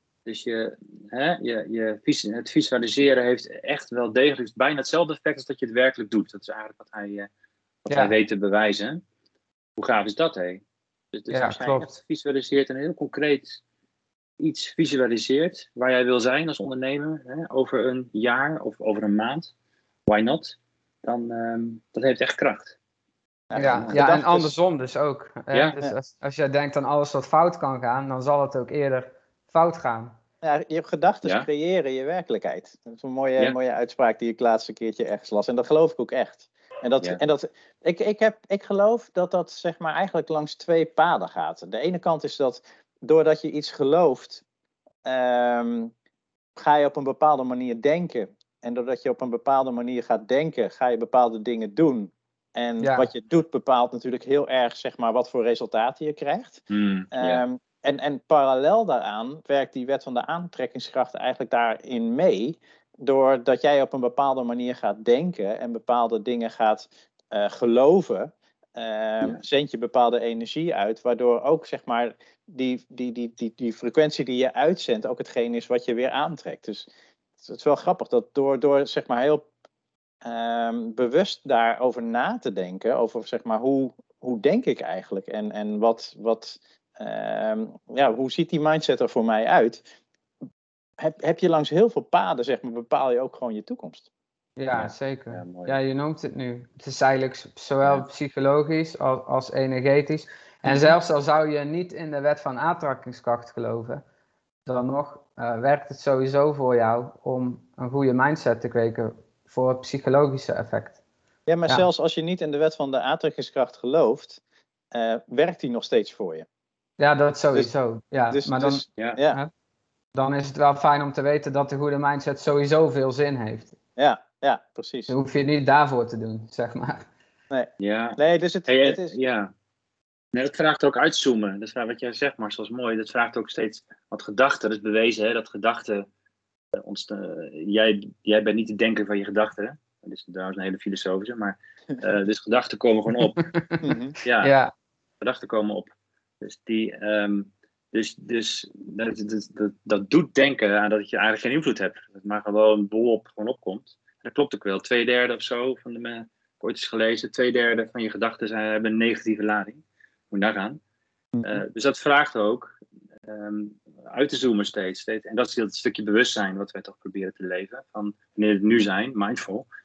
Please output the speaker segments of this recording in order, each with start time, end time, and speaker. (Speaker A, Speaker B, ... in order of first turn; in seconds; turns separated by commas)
Speaker A: 0.2-7.3, Speaker A: 7.8-9.0, Speaker B: 7.9-8.1, Speaker A: 9.8-13.6, Speaker B: 11.3-11.9, Speaker A: 14.4-19.5, Speaker A: 20.1-22.8, Speaker C: 23.5-24.5, Speaker B: 23.6-30.1, Speaker A: 23.8-24.0, Speaker C: 30.4-44.4, Speaker C: 45.0-45.9, Speaker C: 46.6-76.9, Speaker B: 52.8-53.1, Speaker A: 56.7-57.4, Speaker C: 77.4-79.5, Speaker C: 80.2-89.8, Speaker C: 91.0-94.1, Speaker B: 94.6-104.0, Speaker A: 94.7-95.8, Speaker C: 100.6-100.9, Speaker B: 104.7-111.0, Speaker C: 111.5-114.4, Speaker C: 114.9-116.5, Speaker B: 117.0-119.5, Speaker C: 118.3-119.4, Speaker B: 120.1-123.8, Speaker C: 124.0-125.1, Speaker B: 125.1-127.1, Speaker C: 127.5-129.2, Speaker A: 127.8-129.5, Speaker A: 130.3-136.1, Speaker A: 136.7-143.5, Speaker B: 143.4-144.7, Speaker C: 143.8-144.1, Speaker A: 144.2-144.6, Speaker A: 145.2-145.9, Speaker A: 146.4-160.8, Speaker C: 161.4-161.6, Speaker A: 161.4-169.7